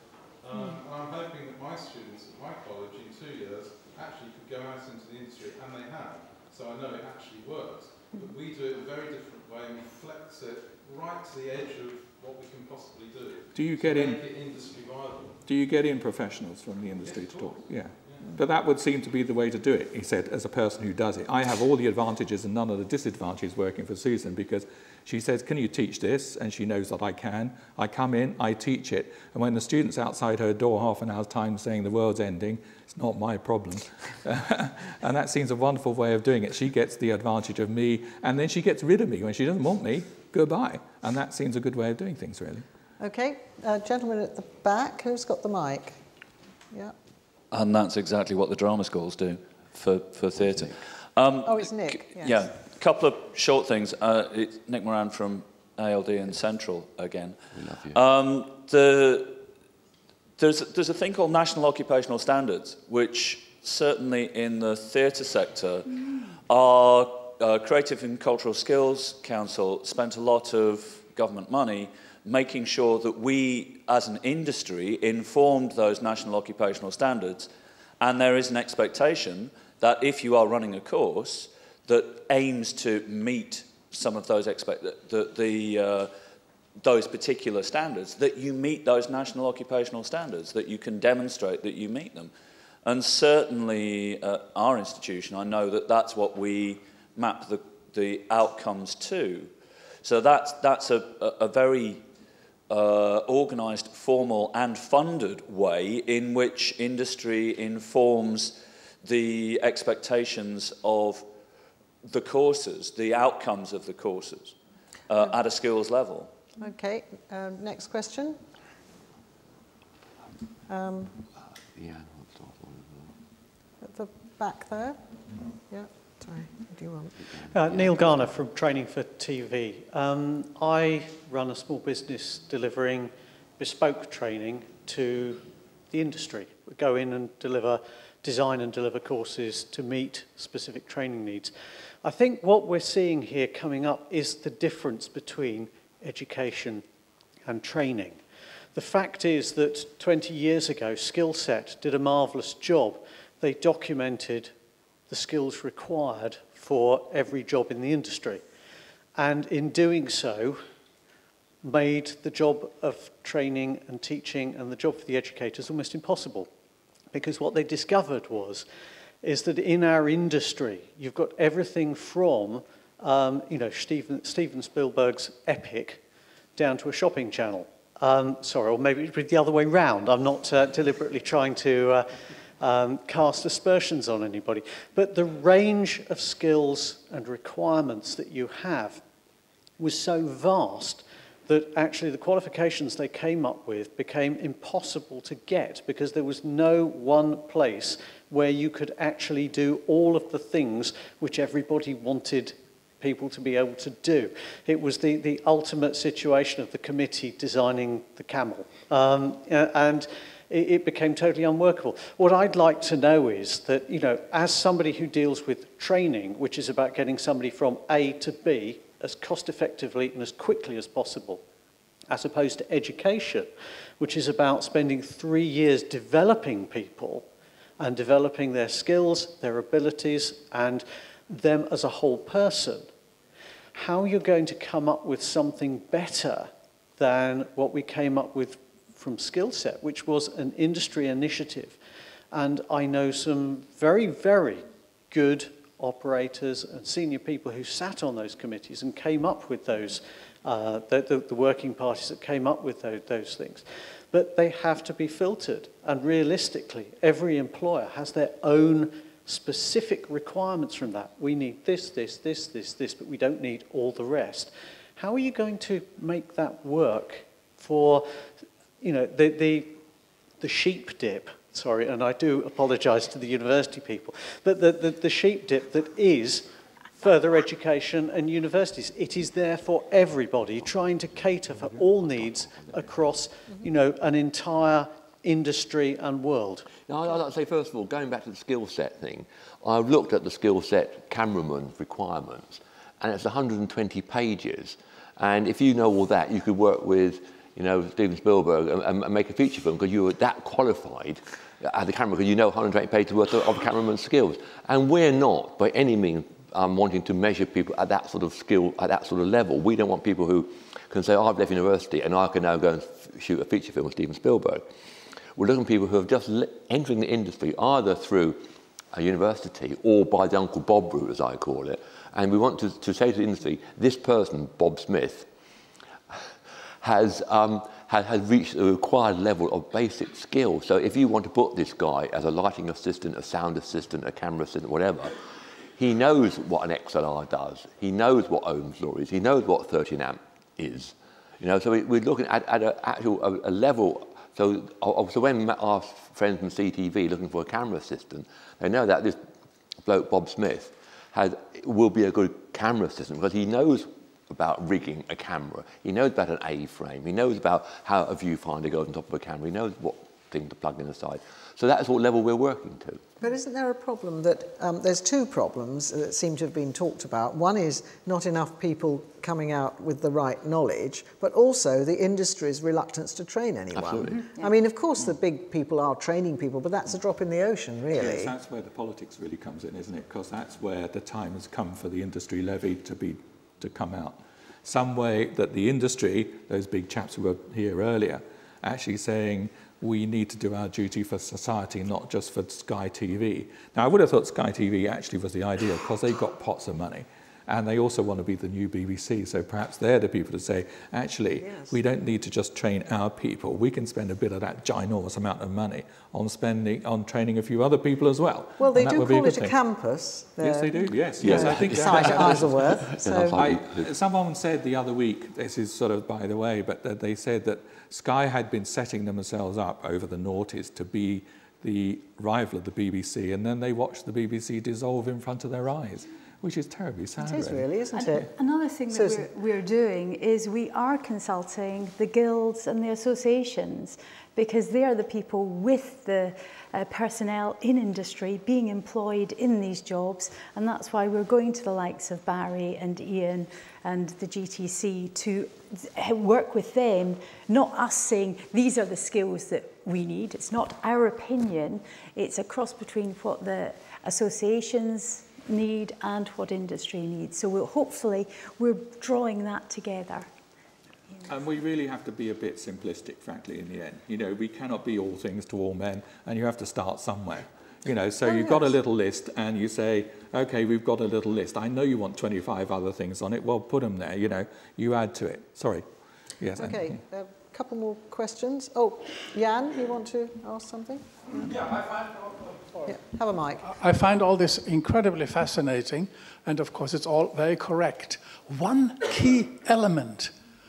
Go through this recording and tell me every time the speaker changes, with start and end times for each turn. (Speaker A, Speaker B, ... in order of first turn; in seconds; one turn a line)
Speaker A: 0.4-15.4
Speaker B: 13.5-14.2
Speaker B: 15.4-42.6
Speaker A: 17.0-18.2
Speaker C: 43.0-46.0
Speaker D: 47.5-59.4
Speaker C: 51.4-52.5
Speaker E: 57.5-58.0
Speaker D: 60.4-65.9
Speaker D: 66.5-77.5
Speaker D: 78.0-86.1
Speaker D: 86.8-92.3
Speaker D: 92.8-102.0
Speaker D: 102.7-111.3
Speaker D: 112.0-114.5
Speaker D: 115.1-116.3
Speaker C: 116.6-118.4
Speaker C: 120.7-121.1
Speaker E: 121.6-123.1
Speaker C: 123.8-125.0
Speaker C: 125.7-127.2
Speaker F: 127.5-146.8
Speaker E: 127.5-128.1
Speaker F: 147.4-154.5
Speaker F: 155.1-158.4
Speaker F: 159.1-160.6
Speaker F: 161.6-166.5
Speaker F: 167.1-168.7
Speaker F: 169.2-176.0
Speaker F: 176.6-189.0
Speaker F: 189.8-221.4
Speaker F: 222.1-227.3
Speaker F: 227.8-232.9
Speaker F: 233.7-241.8
Speaker F: 242.3-268.1
Speaker F: 268.8-269.8
Speaker F: 270.4-286.7
Speaker E: 281.5-282.9
Speaker E: 286.8-314.7
Speaker E: 315.4-318.4
Speaker E: 318.9-325.3
Speaker E: 326.8-335.1
Speaker E: 335.8-349.2
Speaker E: 349.8-363.0
Speaker C: 363.2-378.3
Speaker E: 373.7-374.2
Speaker G: 374.1-374.5
Speaker B: 377.9-409.5
Speaker C: 401.4-401.8
Speaker C: 408.6-413.4
Speaker B: 410.4-412.7
Speaker E: 411.2-413.9
Speaker B: 413.4-428.2
Speaker C: 427.2-428.3
Speaker G: 427.9-460.3
Speaker C: 428.9-429.3
Speaker B: 461.2-475.8
Speaker C: 468.2-468.7
Speaker B: 476.4-477.0
Speaker C: 476.6-481.6
Speaker C: 482.8-483.7
Speaker H: 483.6-490.3